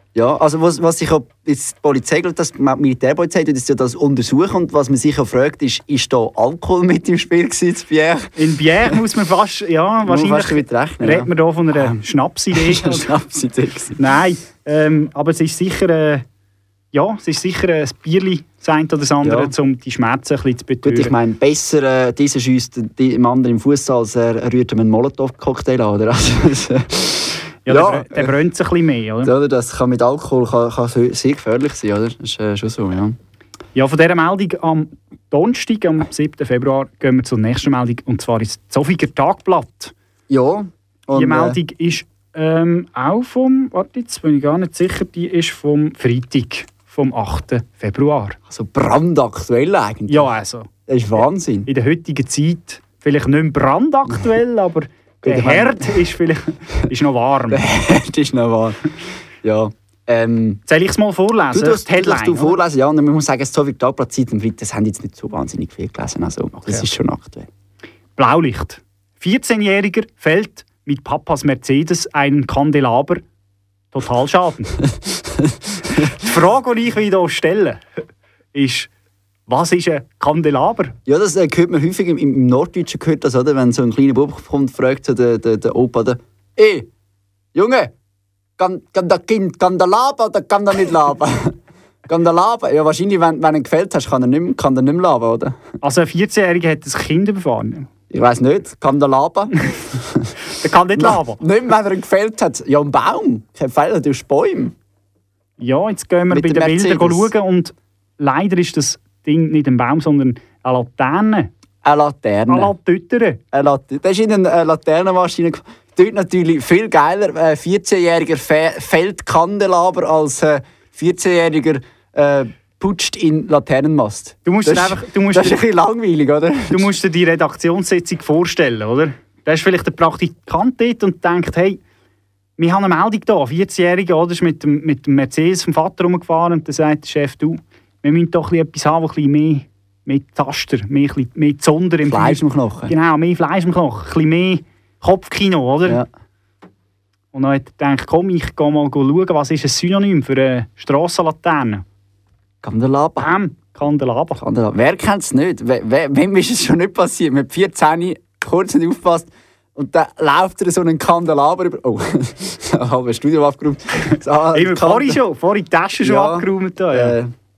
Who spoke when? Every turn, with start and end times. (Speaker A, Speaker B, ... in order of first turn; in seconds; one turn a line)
Speaker A: 0.1-8.3
Speaker B: 8.4-13.1
Speaker A: 10.1-12.0
Speaker A: 12.5-14.0
Speaker B: 14.0-16.2
Speaker B: 16.9-21.1
Speaker A: 19.2-19.5
Speaker A: 20.8-28.4
Speaker B: 27.7-29.3
Speaker A: 29.2-33.2
Speaker B: 33.8-39.9
Speaker A: 40.3-41.6
Speaker B: 41.1-48.4
Speaker A: 48.5-50.3
Speaker B: 50.1-57.6
Speaker A: 50.9-51.7
Speaker A: 55.2-56.0
Speaker A: 57.5-60.6
Speaker B: 60.7-62.6
Speaker A: 61.5-67.5
Speaker B: 68.2-73.2
Speaker B: 73.9-74.8
Speaker A: 74.8-76.2
Speaker B: 76.2-77.8
Speaker B: 78.5-78.9
Speaker B: 79.5-81.0
Speaker A: 81.1-86.9
Speaker A: 87.5-87.9
Speaker A: 88.6-91.6
Speaker A: 92.1-95.6
Speaker B: 95.8-97.9
Speaker A: 98.1-100.3
Speaker B: 100.5-101.4
Speaker A: 101.0-104.7
Speaker B: 105.6-111.5
Speaker A: 106.3-107.3
Speaker A: 111.8-112.7
Speaker B: 112.5-113.4
Speaker A: 113.5-127.0
Speaker B: 124.5-125.6
Speaker B: 126.7-131.8
Speaker B: 132.6-146.0
Speaker A: 142.1-142.9
Speaker B: 147.3-151.8
Speaker A: 152.6-153.3
Speaker B: 153.2-154.4
Speaker A: 154.4-165.2
Speaker B: 164.5-167.2
Speaker A: 166.0-167.3